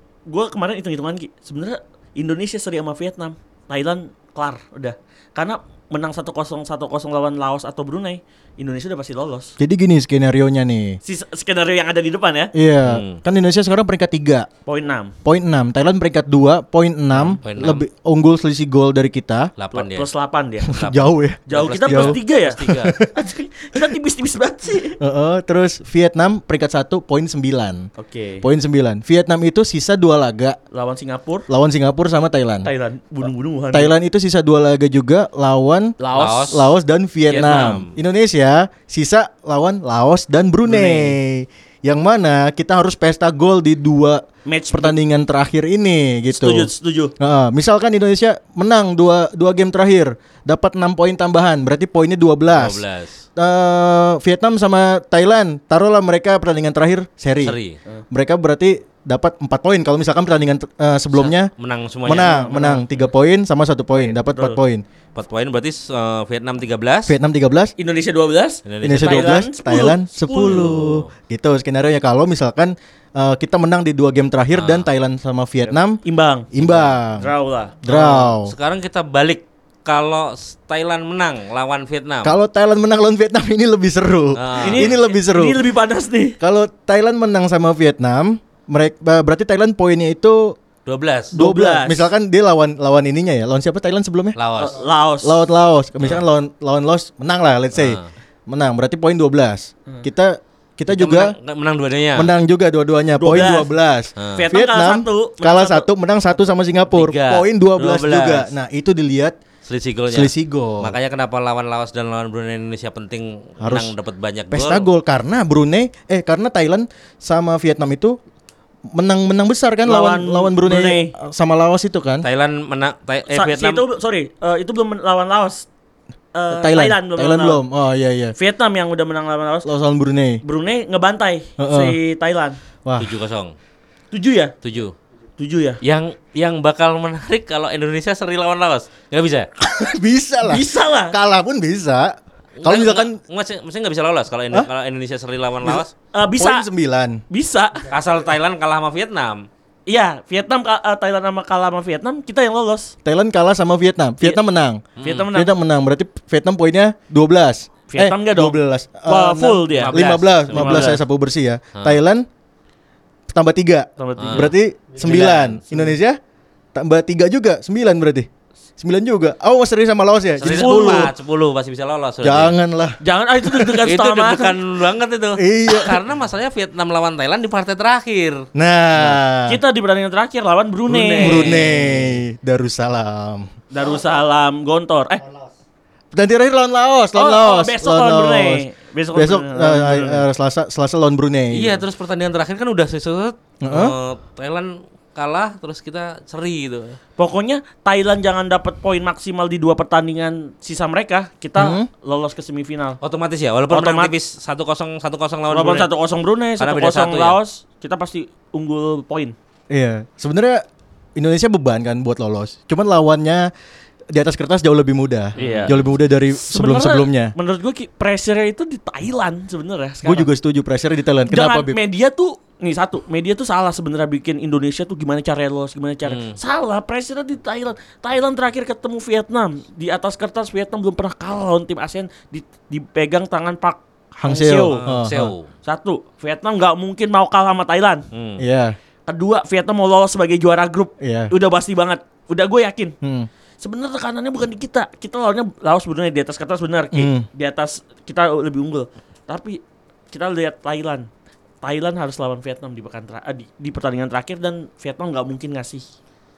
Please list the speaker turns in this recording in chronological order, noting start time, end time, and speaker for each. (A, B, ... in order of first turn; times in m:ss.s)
0:00.3-0:09.5 A
0:09.6-0:11.0 B
0:11.0-0:12.5 A
0:12.5-0:14.5 B
0:12.8-0:13.2 C
0:14.6-0:15.1 A
0:15.2-0:19.5 B
0:17.4-0:17.8 C
0:19.6-0:20.1 C
0:19.7-0:20.7 A
0:20.7-0:23.8 B
0:20.7-0:23.0 C
0:21.5-0:25.0 A
0:25.0-0:27.9 B
0:28.0-0:28.4 A
0:28.4-0:30.6 B
0:30.7-0:31.5 A
0:31.5-0:32.7 B
0:32.6-0:33.9 A
0:33.7-0:36.0 B
0:36.0-0:36.6 A
0:36.1-0:36.7 C
0:36.5-0:52.8 B
0:37.3-0:37.8 A
0:37.3-0:37.9 C
0:40.6-0:41.2 A
0:44.4-0:45.0 A
0:46.3-0:47.1 A
0:52.5-0:53.2 C
0:53.4-0:57.6 B
0:57.4-0:57.8 C
0:58.1-1:01.5 B
1:01.1-1:02.4 C
1:02.0-1:04.8 B
1:02.1-1:02.8 A
1:04.0-1:04.6 A
1:05.1-1:07.1 C
1:07.0-1:07.7 B
1:07.8-1:10.9 A
1:08.6-1:09.4 C
1:08.8-1:16.0 B
1:10.5-1:11.0 C
1:14.5-1:14.8 C
1:15.6-1:16.5 A
1:16.5-1:17.3 B
1:16.6-1:16.9 C
1:17.1-1:17.8 A
1:17.8-1:18.5 B
1:17.9-1:22.4 C
1:22.2-1:25.6 B
1:24.4-1:25.0 C
1:24.6-1:26.4 A
1:26.4-1:30.6 B
1:30.8-1:31.3 C
1:31.3-1:32.1 A
1:31.3-1:34.4 B
1:34.4-1:34.8 C
1:34.6-1:35.4 A
1:35.2-1:41.3 B
1:37.8-1:38.0 C
1:40.9-1:42.3 C
1:42.1-1:49.4 B
1:43.2-1:43.7 A
1:44.2-1:44.4 C
1:44.3-1:45.9 A
1:46.9-1:48.5 C
1:49.6-1:54.9 C
1:50.1-1:51.0 B
1:53.6-1:53.9 B
1:54.5-1:58.2 B
1:58.9-2:02.3 B
1:59.8-2:01.1 A
2:02.2-2:03.8 C
2:03.3-2:05.6 A
2:06.3-2:07.6 A
2:06.5-2:08.3 B
2:08.4-2:09.7 A
2:09.6-2:10.4 B
2:10.4-2:12.6 A
2:11.6-2:12.0 B
2:12.8-2:13.1 B
2:13.0-2:13.5 C
2:14.1-2:14.5 A
2:14.6-2:14.9 C
2:15.4-2:15.8 A
2:15.8-2:19.5 C
2:19.6-2:23.2 B
2:20.4-2:21.2 A
2:22.6-2:25.9 C
2:26.1-2:26.6 A
2:26.4-2:27.2 B
2:27.3-2:27.8 A
2:27.9-2:29.4 C
2:29.9-2:32.9 A
2:33.0-2:42.2 B
2:35.0-2:35.3 C
2:35.0-2:35.5 A
2:37.9-2:40.0 A
2:39.8-2:41.0 C
2:40.5-2:41.0 A
2:41.7-2:42.0 C
2:43.3-2:46.2 B
2:44.0-2:45.9 A
2:44.2-2:44.5 C
2:45.1-2:45.4 C
2:46.7-2:51.1 B
2:50.4-2:52.5 C
2:50.4-2:51.1 A
2:52.2-2:53.0 B
2:53.0-2:54.6 A
2:53.8-2:59.2 C
2:55.4-2:56.0 B
2:58.5-2:59.6 B
2:59.5-3:01.6 A
3:00.9-3:02.2 C
3:01.1-3:03.5 B
3:03.7-3:05.2 A
3:06.1-3:11.8 B
3:07.1-3:10.2 A
3:11.5-3:17.0 C
3:13.6-3:13.9 B
3:17.2-3:23.0 A
3:21.6-3:21.9 B
3:23.0-3:25.9 C
3:23.7-3:24.1 A
3:25.5-3:29.3 A
3:26.6-3:27.4 C
3:29.7-3:30.6 B
3:31.2-3:33.5 B
3:34.1-3:37.3 B
3:35.4-3:35.7 A
3:35.4-3:35.8 C
3:36.3-3:40.3 A
3:40.0-3:41.8 B
3:41.3-3:54.8 A
3:46.0-3:46.4 C
3:54.2-3:55.3 B
3:54.7-3:55.5 C
3:55.6-3:58.0 A
3:58.1-3:58.4 C
3:58.4-3:58.8 B
3:59.1-4:02.9 A
4:01.0-4:01.3 B
4:03.0-4:03.3 B
4:03.6-4:09.6 A
4:06.9-4:07.2 B
4:10.1-4:11.1 A
4:11.6-4:15.8 A